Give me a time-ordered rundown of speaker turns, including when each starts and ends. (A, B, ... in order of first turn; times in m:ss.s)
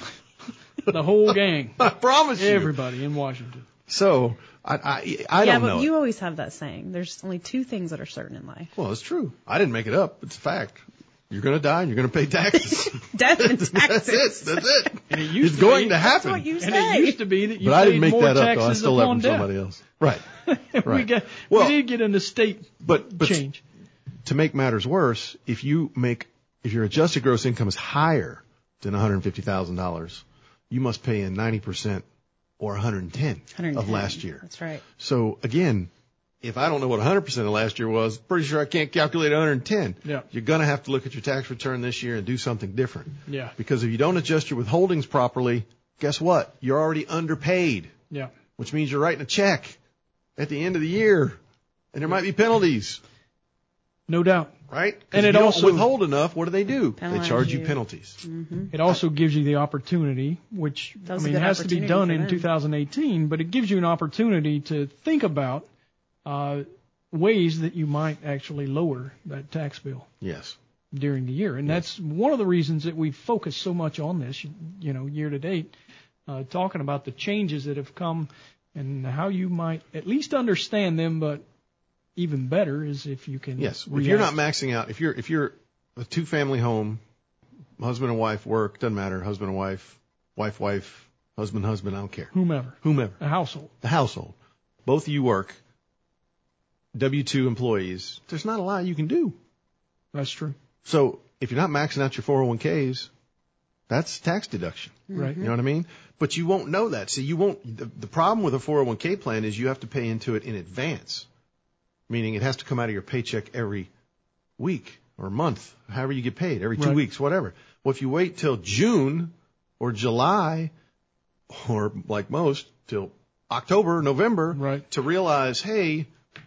0:00.9-0:03.6 A
0:01.8-0:02.7 B
0:03.9-0:05.9 B
0:05.4-0:08.7 C
0:08.7-0:16.5 B
0:12.8-0:14.9 C
0:15.1-0:19.5 A
0:16.0-0:17.2 C
0:17.6-0:20.2 B
0:20.4-0:23.6 A
0:20.8-0:21.8 B
0:22.8-0:23.4 B
0:24.2-0:32.0 B
0:32.6-0:35.9 B
0:33.6-0:34.8 C
0:36.4-0:47.9 B
0:43.3-0:43.5 A
0:48.6-0:49.8 B
0:50.4-0:51.4 B
0:51.9-0:53.0 B
0:54.1-0:54.5 A
0:54.7-0:58.2 B
0:55.1-0:55.9 A
0:57.0-0:59.0 C
0:58.7-1:05.6 A
1:01.1-1:02.5 C
1:06.2-1:10.1 A
1:10.2-1:10.6 B
1:10.9-1:15.7 A
1:16.3-1:21.4 A
1:22.2-1:24.4 A
1:23.6-1:27.0 B
1:27.8-1:33.2 B
1:32.3-1:33.7 A
1:33.8-1:35.6 B
1:36.9-1:39.4 B
1:40.1-1:40.6 A
1:40.8-1:43.1 B
1:43.9-1:51.3 B
1:45.1-1:45.5 C
1:45.1-1:45.4 A
1:52.1-1:53.9 B
1:54.6-2:00.7 B
2:01.5-2:06.1 B
2:04.5-2:04.8 A